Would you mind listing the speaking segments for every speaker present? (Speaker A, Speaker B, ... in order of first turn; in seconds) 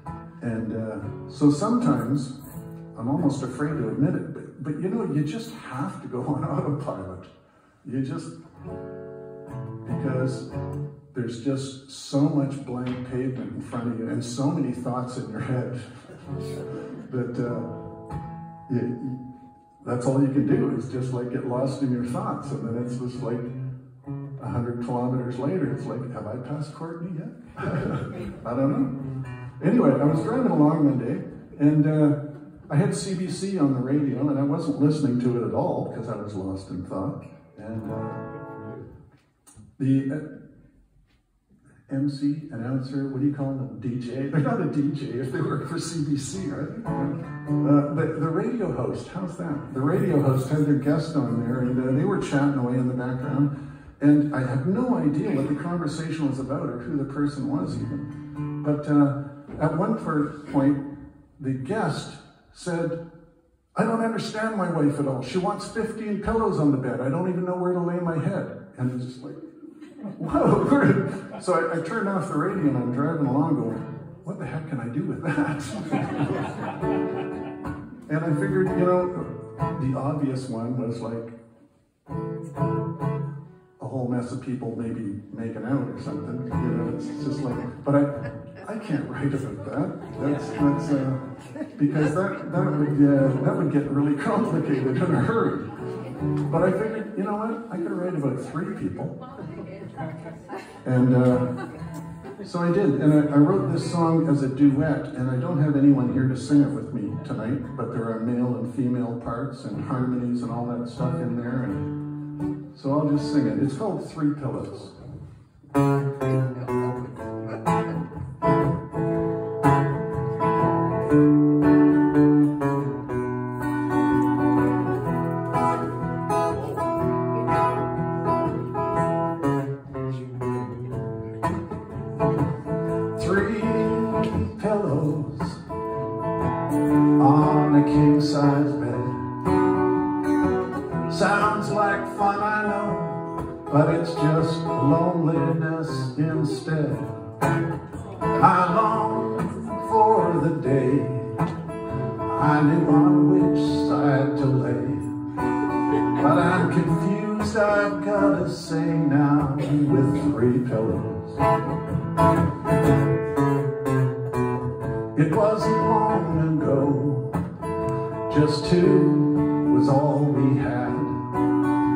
Speaker A: 0.4-2.4, 2.9-8.3, 9.8-10.5, 11.1-17.8, 18.7-19.2, 19.8-23.5, 24.4-29.0, 29.6-32.1, 32.7-38.7, 39.8-40.3, 41.9-60.8, 61.4-63.0, 63.7-69.4, 70.0-76.7, 78.0-81.4, 83.8-95.7, 96.3-99.1, 100.8-101.5, 102.4-112.0, 112.7-115.0, 133.1-135.6, 137.2-139.3, 141.1-147.2, 148.3-151.4, 152.2-155.2, 155.9-161.4, 165.1-167.4, 168.2-171.3